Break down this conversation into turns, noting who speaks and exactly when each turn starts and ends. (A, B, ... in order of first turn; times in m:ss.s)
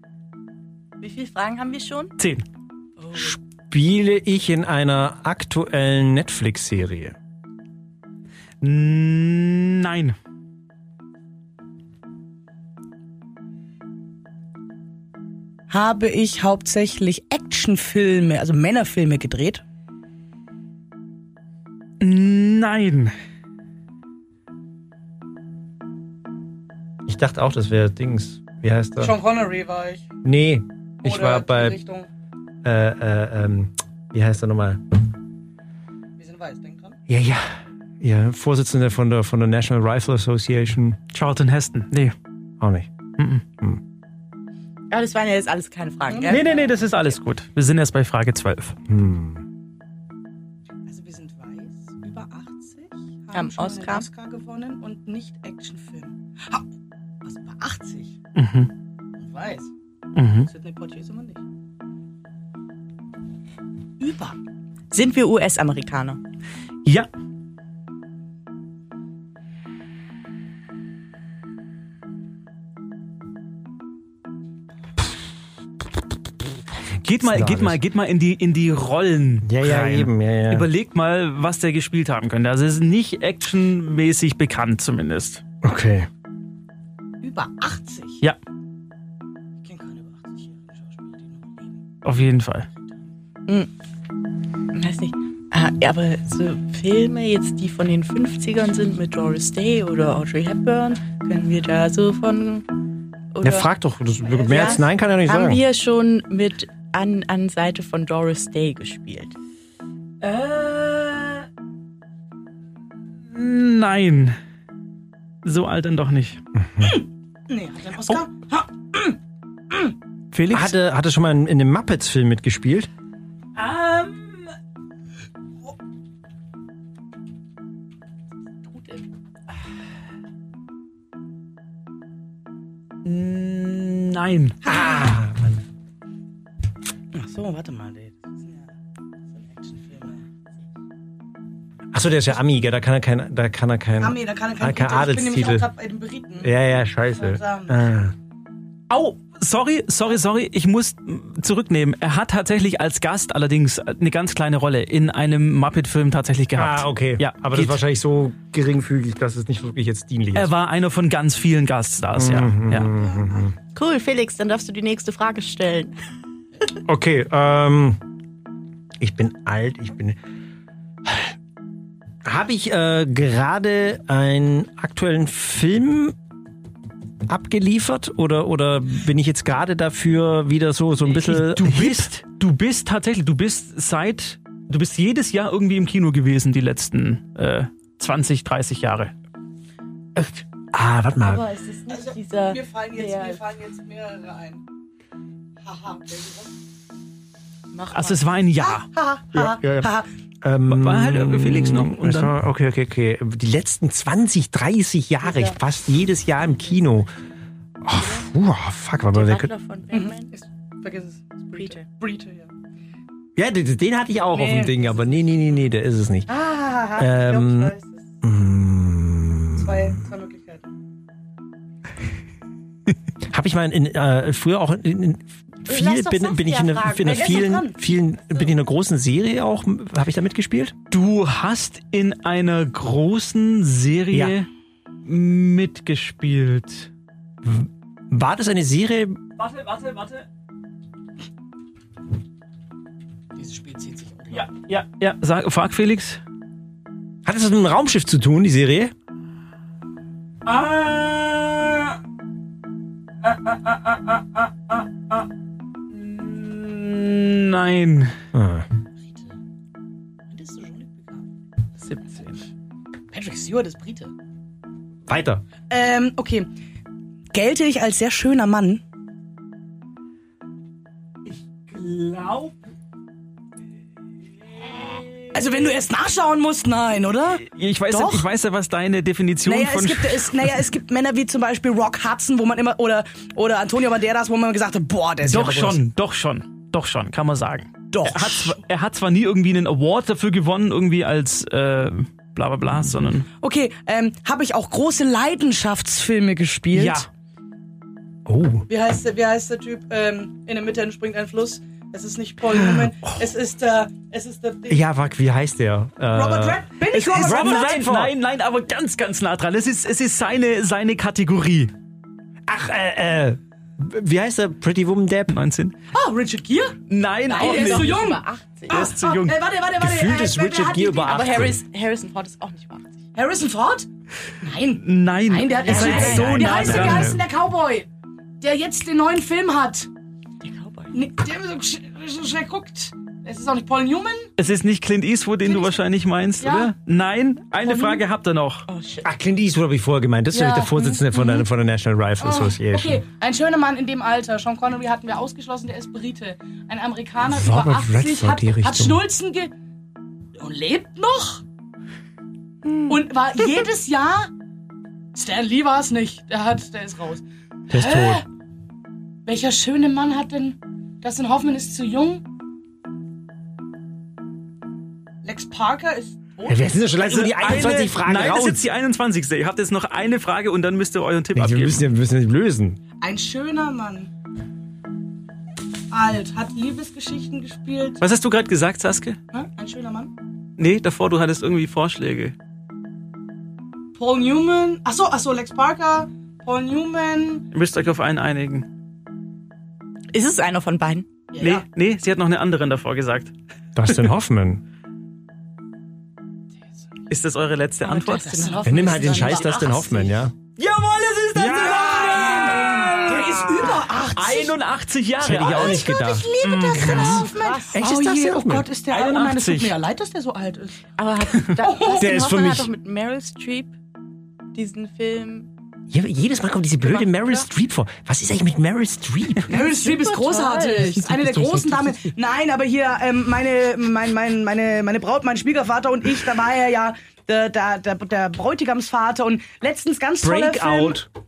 0:01.0-0:02.1 A
0:02.2-0:02.4 B
0:03.1-0:07.2 C
0:08.6-0:10.2 B
0:15.7-0:19.6 D
0:15.7-0:17.9 A
0:22.0-0:23.1 B
0:27.0-0:29.2 C
0:29.0-0:30.1 D
0:30.2-0:31.8 C
0:31.0-0:32.1 D
0:32.6-0:35.0 C
0:36.2-0:37.0 D
0:37.1-0:41.0 C
0:41.1-0:42.2 B
0:42.6-0:42.9 C
0:43.2-0:43.4 B
0:44.9-0:46.5 A
0:46.1-0:46.6 D
0:46.2-0:48.8 B
0:48.9-0:49.4 C
0:50.8-0:56.7 D
0:53.3-0:54.1 A
0:57.2-0:58.2 D
0:58.3-0:58.7 B
0:59.2-0:59.7 D
1:00.1-1:00.5 B
1:00.5-1:01.4 D
1:04.0-1:04.4 D
1:04.9-1:06.2 A
1:17.0-1:25.4 B
1:17.2-1:17.8 C
1:19.4-1:20.7 C
1:25.6-1:26.1 C
1:27.2-1:28.2 D
1:29.6-1:31.8 D
1:32.0-1:32.7 B
1:34.7-1:42.7 A
1:43.3-1:43.7 A
1:43.4-1:45.6 C
1:44.4-1:49.3 A
1:50.2-1:51.5 B
1:53.3-1:54.4 B
1:55.4-1:56.4 B
1:56.8-1:59.2 D
2:00.3-2:00.7 B
2:00.5-2:02.9 C
2:03.5-2:04.5 B
2:08.7-2:09.0 D
2:13.0-2:14.6 B
2:14.6-2:15.6 C
2:14.6-2:15.2 D
2:17.1-2:18.7 D
2:19.3-2:20.2 D
2:21.9-2:25.7 C
2:24.0-2:26.5 D
2:26.4-2:28.1 C
2:27.2-2:27.8 D
2:28.9-2:37.8 B
2:36.6-2:40.5 C
2:40.3-2:42.9 B
2:42.1-2:43.6 C
2:43.7-2:45.9 A
2:46.8-2:48.0 C
2:49.0-2:50.2 C
2:51.0-2:51.3 C
2:52.2-2:56.2 C
2:57.2-3:02.1 C
3:01.0-3:09.1 B
3:10.7-3:11.4 C
3:11.2-3:13.4 A
3:11.9-3:14.6 D
3:15.6-3:16.5 D
3:17.7-3:18.3 A
3:17.9-3:18.9 B
3:18.6-3:20.1 D
3:19.3-3:19.9 C
3:20.4-3:27.1 C
3:20.6-3:22.4 B
3:25.3-3:25.5 D
3:27.8-3:29.5 C
3:29.1-3:30.3 A
3:29.9-3:32.5 D
3:31.6-3:31.8 A
3:33.4-3:36.3 C
3:34.3-3:35.2 D
3:36.3-3:38.0 D
3:37.0-3:39.9 C
3:39.5-3:40.7 D
3:43.2-3:50.8 C
3:45.7-3:47.4 A
3:47.0-3:47.8 D
3:50.9-3:54.5 B
3:55.0-3:56.9 B
3:57.4-3:59.2 C
3:59.4-4:00.3 B
4:03.3-4:04.5 D
4:04.3-4:06.2 B
4:07.2-4:08.9 C
4:10.4-4:12.0 B
4:13.2-4:15.3 B
4:15.9-4:18.2 B
4:18.3-4:18.7 C
4:19.0-4:19.3 D
4:20.3-4:21.2 D
4:21.8-4:22.4 B
4:23.1-4:24.1 D
4:25.1-4:25.4 C
4:25.7-4:26.5 D
4:27.3-4:28.8 D
4:31.3-4:32.5 B
4:34.6-4:35.4 B
4:35.3-4:38.3 D
4:37.4-4:40.5 B
4:39.4-4:45.8 D
4:45.2-4:53.3 B
4:47.9-4:48.6 D
4:53.4-4:57.0 D
4:56.7-4:57.1 B
4:58.2-4:58.6 C
4:58.7-5:04.8 D
5:04.7-5:08.1 C
5:06.1-5:07.8 D
5:06.9-5:11.7 B
5:12.5-5:15.3 C
5:15.3-5:15.8 B
5:15.9-5:21.4 D
5:16.9-5:18.0 B
5:17.3-5:18.9 A
5:18.7-5:19.4 B
5:19.8-5:21.6 C
5:21.0-5:23.0 A
5:23.1-5:23.9 D
5:24.4-5:27.9 D
5:24.8-5:27.2 B
5:25.7-5:27.2 C
5:25.7-5:26.8 A
5:28.4-5:29.9 D
5:30.4-5:31.0 A
5:30.9-5:34.3 D
5:34.4-5:38.7 B
5:35.4-5:35.8 D
5:36.4-5:36.7 D
5:37.6-5:38.0 D
5:38.7-5:39.1 A
5:39.0-5:43.0 C
5:40.3-5:41.4 D
5:42.2-5:49.5 D
5:47.2-5:49.0 C
5:50.4-5:51.4 D
5:52.9-5:54.3 D
5:55.1-5:58.2 D
5:57.7-5:58.2 C
5:59.2-6:02.2 D
6:05.2-6:06.7 D
6:06.5-6:08.6 C
6:07.0-6:11.8 B
6:11.3-6:12.8 C
6:13.0-6:14.1 D
6:15.9-6:18.0 D
6:18.0-6:19.2 B
6:19.3-6:20.1 D
6:20.6-6:22.3 B
6:23.9-6:27.4 D
6:27.5-6:28.6 B
6:30.1-6:31.1 A
6:31.3-6:31.6 D
6:31.4-6:33.3 B
6:33.7-6:34.6 C
6:37.1-6:38.3 B
6:37.8-6:40.1 A
6:38.2-6:39.9 D
6:38.6-6:40.3 C
6:40.6-6:47.3 B
6:41.4-6:43.8 C
6:41.5-6:44.5 D
6:45.2-6:48.7 C
6:45.4-6:50.8 D
6:47.0-6:47.8 A
6:48.9-6:49.8 B
6:51.0-6:53.7 A
6:51.6-6:52.2 D
6:51.9-6:52.7 C
6:54.5-6:55.5 A
6:55.9-6:59.6 C
6:56.9-6:57.4 A
6:59.4-7:11.0 D
6:59.5-7:01.0 A
7:01.0-7:02.1 C
7:10.2-7:11.1 C